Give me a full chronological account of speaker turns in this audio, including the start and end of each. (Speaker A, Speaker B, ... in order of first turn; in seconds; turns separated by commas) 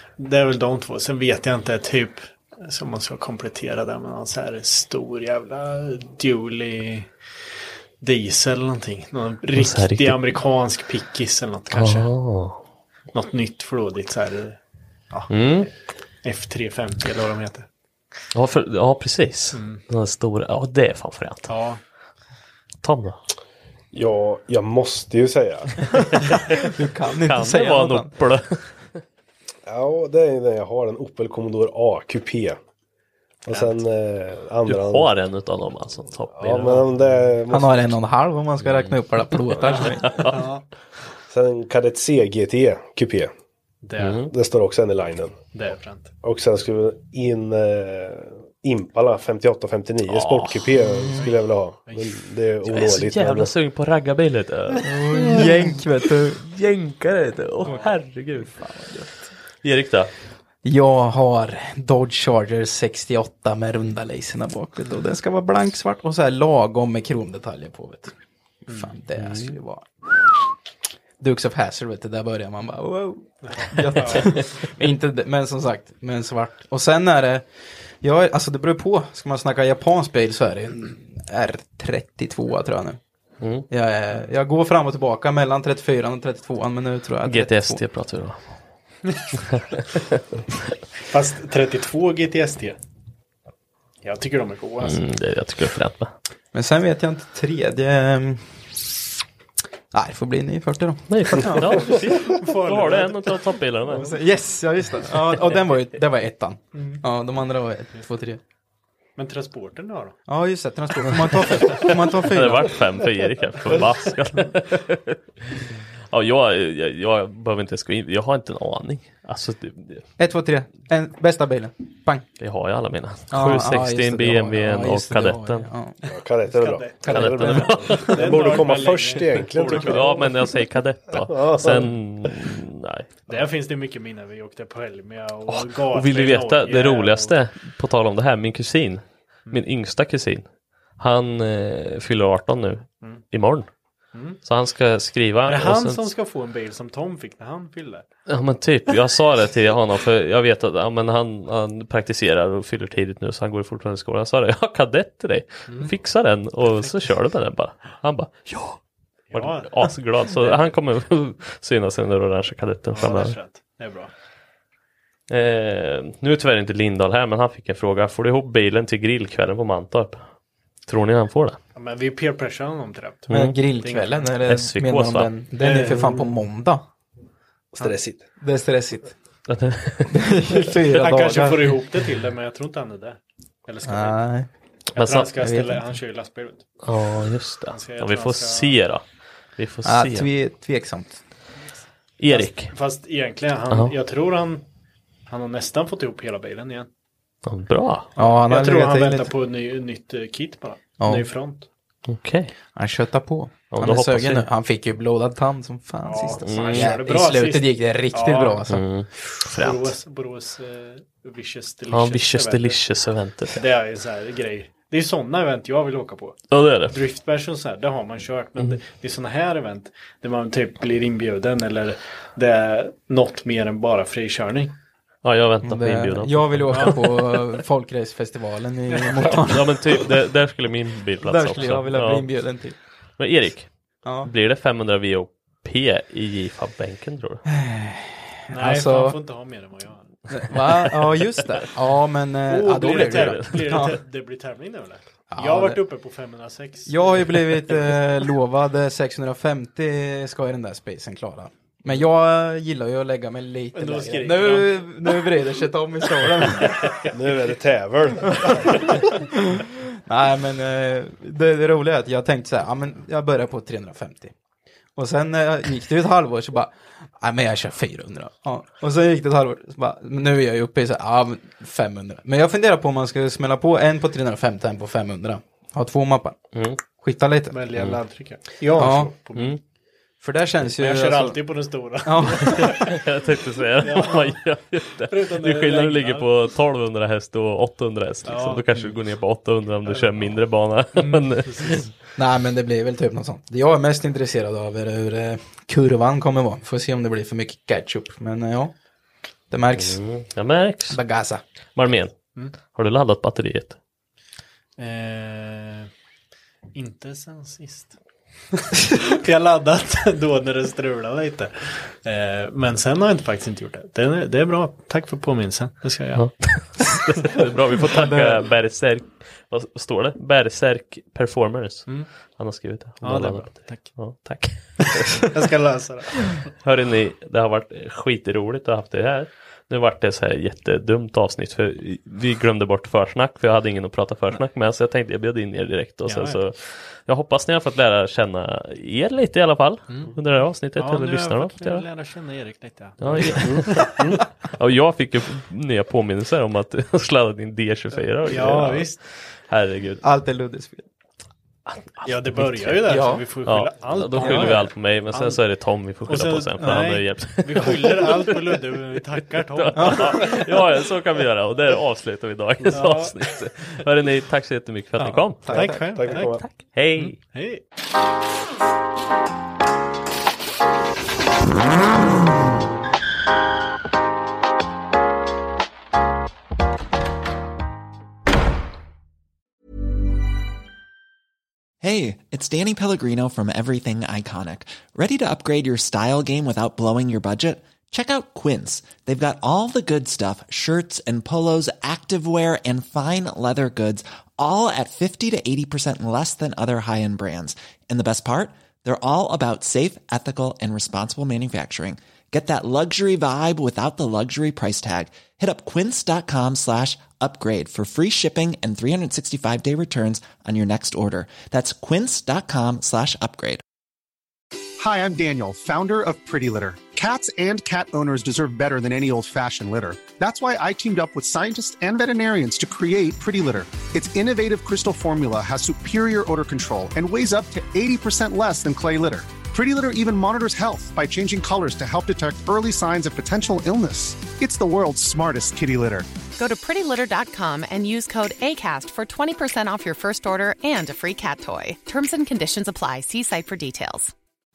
Speaker A: 0.2-7.1, Speaker A: 8.0-12.1, Speaker B: 9.6-10.4, Speaker B: 11.7-12.6, Speaker A: 13.1-14.6, Speaker A: 15.1-15.7, Speaker B: 15.3-15.7, Speaker A: 16.2-17.7, Speaker B: 18.3-21.5, Speaker A: 19.5-19.8, Speaker A: 21.5-21.8, Speaker B: 22.8-23.2, Speaker C: 23.9-25.9, Speaker D: 26.5-28.1, Speaker B: 27.2-28.6, Speaker C: 29.7-32.6, Speaker C: 33.5-35.1, Speaker A: 33.5-33.8, Speaker B: 34.7-37.0, Speaker C: 36.4-38.0, Speaker D: 37.5-40.2, Speaker B: 38.6-40.5, Speaker A: 39.7-40.6, Speaker C: 41.3-43.3, Speaker A: 43.8-44.2, Speaker B: 44.0-44.3, Speaker C: 44.3-45.4, Speaker A: 45.5-46.1, Speaker C: 46.2-53.5, Speaker B: 50.1-50.6, Speaker A: 51.9-52.2, Speaker B: 52.7-55.8, Speaker D: 54.8-56.4, Speaker B: 56.4-58.6, Speaker A: 57.6-57.9, Speaker D: 58.4-59.3, Speaker B: 59.6-60.1, Speaker D: 60.6-68.1, Speaker D: 68.7-69.9, Speaker B: 69.2-69.6, Speaker D: 71.2-77.5, Speaker A: 73.4-74.4, Speaker B: 74.0-74.3, Speaker D: 78.0-83.0, Speaker B: 83.4-83.7, Speaker D: 83.7-87.8, Speaker B: 87.3-88.5, Speaker A: 91.1-92.8, Speaker A: 94.0-95.0, Speaker B: 94.8-96.1, Speaker D: 96.5-98.5, Speaker D: 99.9-102.0, Speaker B: 101.1-104.1, Speaker A: 102.2-104.2, Speaker D: 104.0-108.4, Speaker A: 109.2-110.2, Speaker D: 110.3-112.8, Speaker B: 111.2-115.2, Speaker A: 113.6-114.1, Speaker B: 116.1-120.0, Speaker D: 120.2-122.3, Speaker B: 122.4-125.7, Speaker D: 123.3-126.0, Speaker C: 126.1-130.5, Speaker A: 126.5-130.3, Speaker D: 127.0-128.6, Speaker B: 127.1-128.2, Speaker B: 129.2-133.1, Speaker C: 131.1-132.3, Speaker A: 133.3-137.3, Speaker B: 135.5-140.4, Speaker B: 141.0-143.7, Speaker A: 144.1-144.4, Speaker B: 144.4-146.1, Speaker A: 145.5-148.1, Speaker B: 148.3-158.8, Speaker A: 159.3-160.7, Speaker B: 159.3-163.4, Speaker A: 162.9-164.1, Speaker B: 165.3-170.2, Speaker B: 170.9-171.6, Speaker A: 171.8-174.3, Speaker B: 173.3-173.6, Speaker D: 173.3-176.8, Speaker B: 174.4-175.3, Speaker A: 175.6-176.4, Speaker C: 177.7-178.2, Speaker D: 177.8-179.2, Speaker B: 179.5-180.2, Speaker D: 180.1-181.8, Speaker A: 180.9-184.2, Speaker D: 183.8-184.5, Speaker B: 184.9-185.3, Speaker A: 185.0-186.7, Speaker D: 185.4-185.8, Speaker B: 186.8-189.0, Speaker A: 187.7-188.8, Speaker B: 189.6-190.3, Speaker D: 189.8-191.2, Speaker B: 192.2-192.8, Speaker A: 192.3-194.7, Speaker B: 193.7-193.9, Speaker A: 195.3-196.9, Speaker B: 197.5-198.1, Speaker D: 198.2-199.3, Speaker A: 198.4-201.7, Speaker D: 201.0-201.3, Speaker B: 202.1-202.5, Speaker D: 202.8-208.8, Speaker B: 203.7-204.5, Speaker A: 206.0-208.8, Speaker B: 206.4-206.9, Speaker B: 208.7-210.0, Speaker A: 209.6-212.8, Speaker B: 211.9-213.6, Speaker A: 213.5-224.7, Speaker B: 216.5-217.0, Speaker B: 225.2-227.4, Speaker D: 225.6-229.8, Speaker A: 226.7-227.0, Speaker A: 228.9-229.4, Speaker B: 229.4-232.3, Speaker D: 231.2-232.8, Speaker A: 231.6-231.8, Speaker B: 233.2-233.7, Speaker D: 234.1-234.3, Speaker B: 234.2-237.4, Speaker D: 237.5-239.2, Speaker A: 238.5-240.1, Speaker D: 240.3-244.0, Speaker B: 240.5-241.2, Speaker A: 242.5-247.7, Speaker B: 243.0-244.0, Speaker D: 245.3-245.8, Speaker D: 246.9-257.1, Speaker A: 253.8-255.3, Speaker A: 256.2-257.1, Speaker C: 257.1-258.8, Speaker D: 259.1-264.3, Speaker D: 265.0-276.4, Speaker B: 276.5-276.8, Speaker D: 276.9-277.6, Speaker A: 277.5-279.6, Speaker D: 278.8-279.1, Speaker B: 279.4-279.6, Speaker D: 280.2-281.4, Speaker A: 280.8-283.0, Speaker D: 282.0-282.8, Speaker B: 282.7-291.9, Speaker A: 283.8-284.4, Speaker A: 285.1-286.3, Speaker A: 288.3-288.9, Speaker A: 289.9-290.4, Speaker A: 291.0-291.9, Speaker D: 292.2-298.7, Speaker D: 299.5-300.0, Speaker B: 299.8-301.0, Speaker D: 300.9-301.4, Speaker B: 301.8-302.1, Speaker B: 302.7-303.8, Speaker A: 304.8-305.9, Speaker A: 306.7-307.9, Speaker A: 308.6-316.3, Speaker B: 316.2-325.2, Speaker D: 317.9-318.4, Speaker A: 323.0-324.0, Speaker A: 325.3-326.5, Speaker B: 326.5-341.9, Speaker A: 336.1-336.4, Speaker A: 339.9-340.1, Speaker A: 340.8-343.9, Speaker B: 343.0-344.0, Speaker C: 343.5-344.2, Speaker B: 344.5-350.0, Speaker A: 347.9-349.0, Speaker D: 350.0-350.9, Speaker B: 351.7-352.8, Speaker A: 352.1-355.4, Speaker D: 352.9-353.2, Speaker B: 353.4-358.6, Speaker D: 354.2-354.6, Speaker A: 356.1-360.6, Speaker B: 359.2-365.5, Speaker D: 359.8-360.1, Speaker A: 362.7-363.3, Speaker A: 365.0-367.6, Speaker D: 365.3-366.0, Speaker C: 365.5-366.4, Speaker B: 366.4-367.2, Speaker E: 381.8-413.6, Speaker F: 414.8-436.1, Speaker G: 436.4-444.1